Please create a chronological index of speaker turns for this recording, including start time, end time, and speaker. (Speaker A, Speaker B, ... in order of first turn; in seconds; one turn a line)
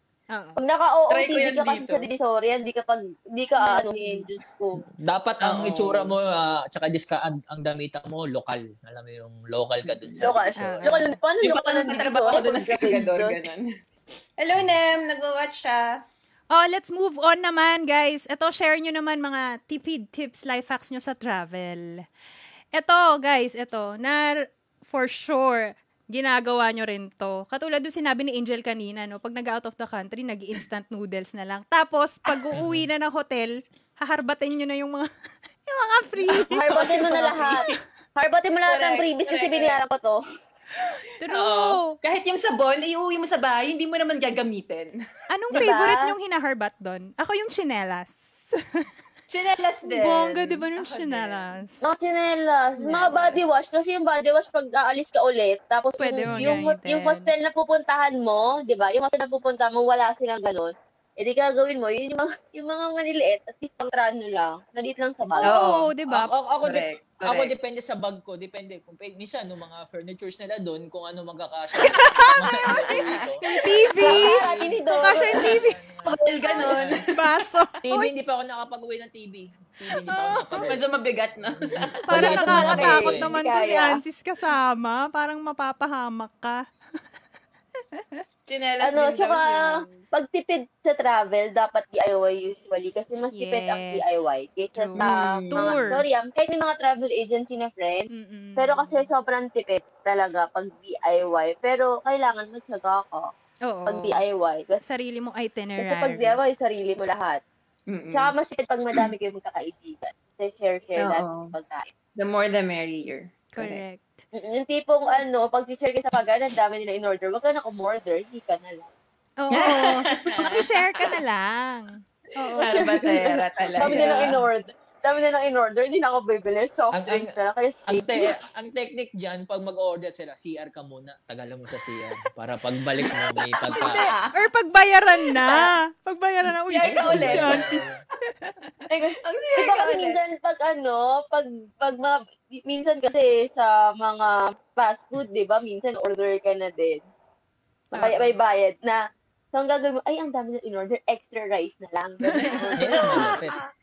Speaker A: 0.3-0.6
Speaker B: 0.6-4.8
Speaker C: 1.1-2.1
Speaker C: 3.6-4.2
Speaker D: 5.0-10.8
Speaker C: 5.4-6.2
Speaker C: 9.8-10.3
Speaker B: 10.2-13.4
Speaker A: 10.6-11.2
Speaker C: 11.4-13.7
Speaker C: 14.4-15.9
Speaker A: 16.5-22.0
Speaker A: 22.7-35.1
Speaker D: 32.6-32.9
Speaker A: 35.7-36.6
Speaker C: 36.3-37.8
Speaker B: 36.3-40.2
Speaker C: 38.6-39.8
Speaker A: 41.2-42.0
Speaker C: 41.3-45.0
Speaker A: 45.3-48.9
Speaker B: 45.5-46.1
Speaker C: 49.3-51.6
Speaker A: 49.9-51.9
Speaker B: 51.8-65.5
Speaker C: 52.8-53.4
Speaker A: 56.0-57.3
Speaker D: 56.3-56.5
Speaker C: 65.4-65.9
Speaker A: 65.4-66.3
Speaker D: 66.1-76.2
Speaker C: 66.6-67.5
Speaker A: 71.9-72.8
Speaker C: 72.6-74.1
Speaker A: 73.4-74.5
Speaker B: 74.0-75.5
Speaker A: 75.0-75.8
Speaker C: 76.0-77.1
Speaker D: 76.8-77.0
Speaker A: 77.0-78.1
Speaker D: 77.8-80.8
Speaker A: 80.1-80.7
Speaker C: 80.6-83.1
Speaker D: 81.4-83.4
Speaker A: 82.1-86.6
Speaker B: 82.1-84.0
Speaker A: 88.0-88.2
Speaker C: 88.5-90.0
Speaker B: 88.8-103.3
Speaker A: 93.3-96.0
Speaker C: 95.0-95.8
Speaker A: 98.1-99.1
Speaker A: 103.7-104.2
Speaker B: 103.9-104.8
Speaker A: 104.8-106.4
Speaker B: 105.8-107.4
Speaker C: 107.9-108.3
Speaker B: 108.1-111.9
Speaker C: 111.0-111.5
Speaker C: 112.2-113.8
Speaker A: 113.5-114.2
Speaker B: 114.3-118.9
Speaker A: 119.4-122.8
Speaker C: 119.5-121.2
Speaker C: 122.6-124.4
Speaker B: 122.6-128.3
Speaker D: 126.9-127.3
Speaker D: 127.9-134.1
Speaker C: 133.0-134.3
Speaker A: 133.8-137.8
Speaker C: 136.5-137.9
Speaker D: 136.8-138.0
Speaker B: 138.9-147.0
Speaker C: 139.2-140.2
Speaker B: 147.9-149.0
Speaker A: 147.9-148.3
Speaker B: 149.5-153.4
Speaker A: 152.3-153.3
Speaker D: 152.8-153.6
Speaker C: 153.0-153.5